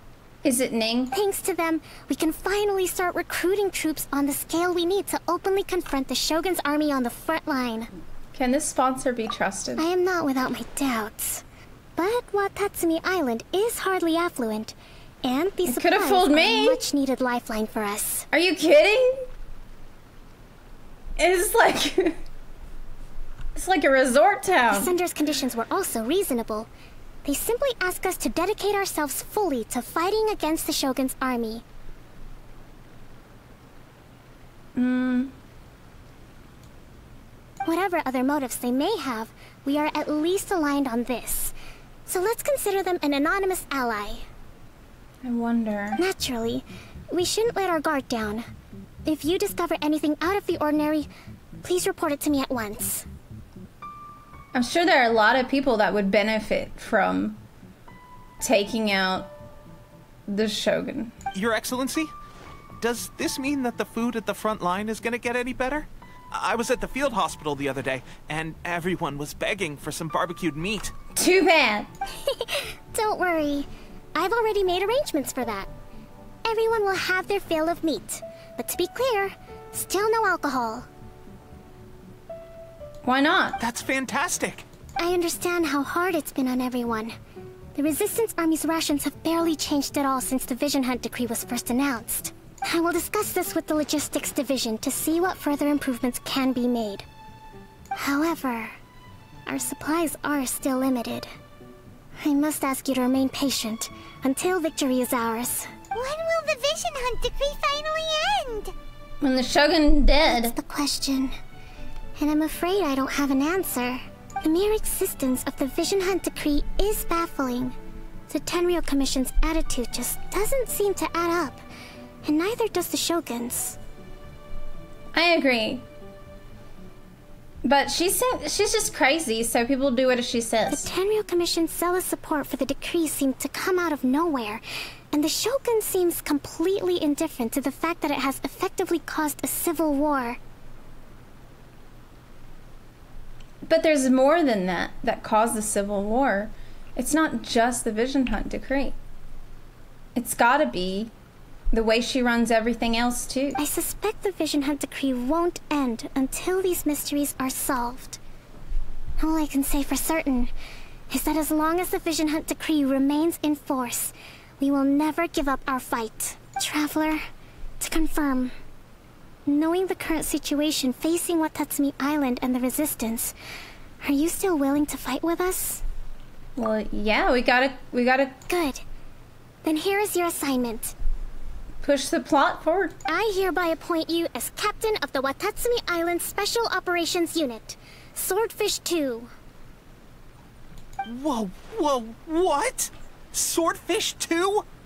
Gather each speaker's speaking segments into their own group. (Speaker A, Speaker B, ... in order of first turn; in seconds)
Speaker A: 0.4-1.1, 8.3-9.8, 15.7-16.8, 18.3-19.2, 21.2-22.2, 23.6-24.9, 34.8-35.3, 45.2-46.0, 54.5-57.4, 58.4-59.3, 60.3-61.1, 71.1-71.9, 83.0-83.6, 109.2-110.5, 125.1-125.8, 127.6-130.9, 143.6-148.9, 150.2-151.1, 151.7-153.6, 176.6-178.3, 181.8-183.0
Speaker B: 1.1-7.9, 9.8-11.4, 11.9-18.3, 24.7-26.7, 27.2-31.6, 37.6-41.5, 42.1-44.2, 46.0-48.5, 49.0-51.1, 51.6-53.0, 72.3-75.7, 76.4-80.9, 85.0-87.1, 87.8-97.0, 97.9-98.8, 99.5-101.3, 102.2-105.7, 110.2-111.3, 112.2-117.8, 118.3-121.6, 122.2-123.8, 130.7-140.4, 153.6-158.2, 159.2-160.5, 161.1-167.2, 167.8-168.5, 169.4-173.3, 174.0-175.8, 178.5-178.8, 179.6-180.9, 183.1-189.3
Speaker C: 61.3-62.1, 62.8-70.9, 83.6-84.6, 191.0-194.6
Speaker D: 105.9-108.7